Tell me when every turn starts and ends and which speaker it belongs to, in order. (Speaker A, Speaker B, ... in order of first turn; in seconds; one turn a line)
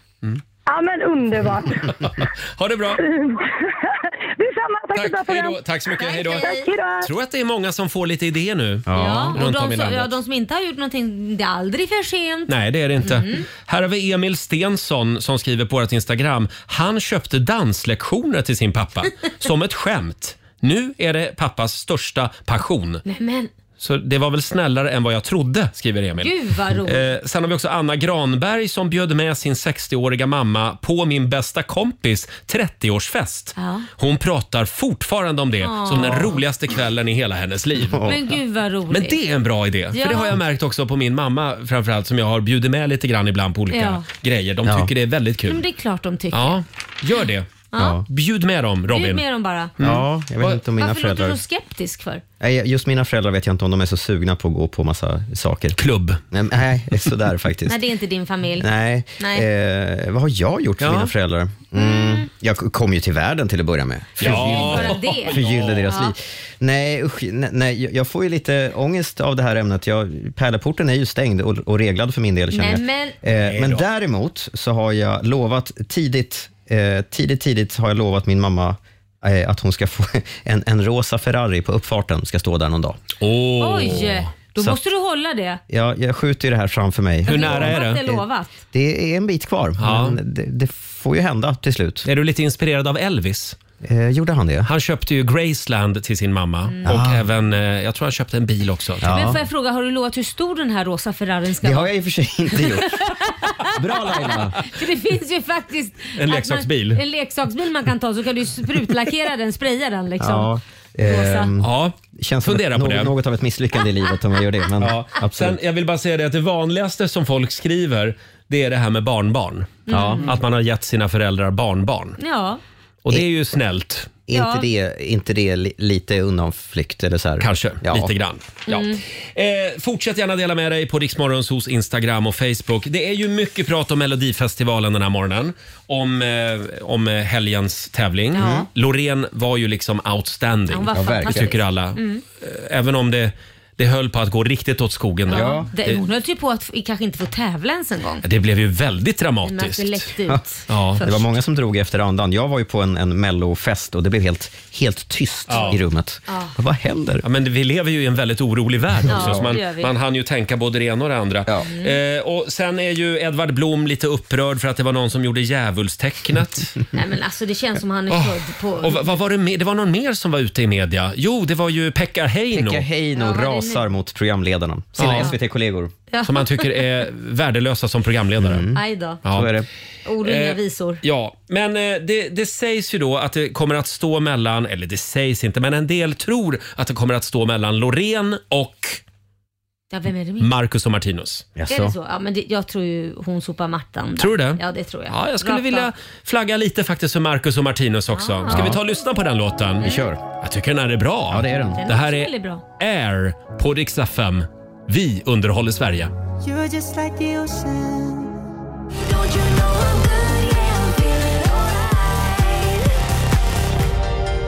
Speaker A: 0.7-1.9
Speaker B: 2.0-3.0
Speaker A: 3.0-5.6
Speaker B: 4.9-10.1
Speaker C: 6.0-6.7
Speaker A: 6.4-7.1
Speaker D: 8.9-9.4
Speaker C: 8.9-12.5
Speaker B: 12.5-23.0
Speaker C: 13.0-13.5
Speaker C: 23.1-23.5
Speaker B: 23.8-38.1
Speaker C: 26.2-27.1
Speaker C: 33.6-33.9
Speaker C: 35.6-36.4
Speaker D: 37.9-38.2
Speaker C: 38.0-39.2
Speaker B: 38.9-45.6
Speaker C: 39.9-40.4
Speaker C: 43.7-44.1
Speaker D: 44.6-44.9
Speaker C: 45.5-46.6
Speaker B: 46.3-47.5
Speaker C: 47.7-48.0
Speaker D: 47.8-48.0
Speaker B: 48.1-49.2
Speaker C: 48.9-49.7
Speaker B: 49.8-50.6
Speaker D: 49.8-51.4
Speaker C: 50.8-52.2
Speaker D: 52.4-55.8
Speaker B: 55.8-56.2
Speaker D: 56.3-57.8
Speaker C: 57.7-59.5
Speaker D: 58.6-83.0
Speaker B: 60.8-61.1
Speaker C: 61.8-62.3
Speaker B: 64.2-65.9
Speaker C: 64.2-66.1
Speaker C: 72.5-73.2
Speaker B: 73.4-73.8
Speaker B: 83.2-84.3
Speaker C: 83.6-85.6
Speaker D: 85.7-92.1
Speaker C: 87.3-88.6
Speaker B: 87.3-88.0
Speaker B: 89.8-90.2
Speaker B: 92.0-93.6
Speaker D: 93.8-94.7
Speaker B: 94.7-99.1
Speaker D: 96.8-97.2
Speaker D: 99.0-99.4
Speaker C: 99.0-101.9
Speaker D: 101.6-103.0
Speaker C: 102.6-110.5
Speaker D: 103.8-104.5
Speaker B: 106.2-107.0
Speaker D: 110.2-115.6
Speaker C: 111.0-111.5
Speaker B: 111.6-113.1
Speaker B: 114.8-122.2
Speaker C: 119.9-120.2
Speaker D: 119.9-120.3
Speaker C: 122.2-122.6
Speaker B: 123.0-124.1
Speaker D: 124.3-128.1
Speaker C: 124.3-124.7
Speaker B: 127.4-146.1
Speaker C: 128.7-129.0
Speaker C: 138.3-138.7
Speaker D: 138.4-138.7
Speaker C: 140.7-142.2
Speaker D: 140.9-141.6
Speaker C: 145.3-148.2
Speaker D: 145.3-145.7
Speaker B: 148.2-150.1
Speaker C: 149.5-151.3
Speaker B: 150.7-151.0
Speaker D: 151.0-157.2
Speaker B: 155.5-155.8
Speaker C: 155.5-155.8
Speaker C: 156.3-156.5
Speaker B: 157.2-166.8
Speaker C: 159.1-159.9
Speaker D: 159.1-159.6
Speaker C: 161.7-161.9
Speaker C: 166.9-169.0
Speaker B: 168.1-172.8
Speaker D: 172.5-175.9
Speaker C: 173.2-173.8
Speaker B: 175.0-175.3
Speaker C: 175.0-175.3
Speaker C: 176.1-176.8
Speaker B: 176.2-178.6
Speaker D: 178.4-179.7
Speaker C: 178.7-179.2
Speaker B: 179.2-179.6
Speaker C: 180.1-181.0
Speaker B: 180.2-189.0
Speaker C: 189.9-190.5
Speaker B: 190.4-191.5
Speaker D: 191.6-191.9
Speaker C: 191.7-195.9
Speaker B: 194.2-206.1
Speaker C: 198.1-198.8
Speaker D: 198.5-198.8
Speaker D: 199.8-200.2
Speaker C: 199.8-200.1
Speaker D: 201.3-201.9
Speaker C: 201.8-202.6
Speaker E: 206.4-208.2
Speaker E: 209.0-212.9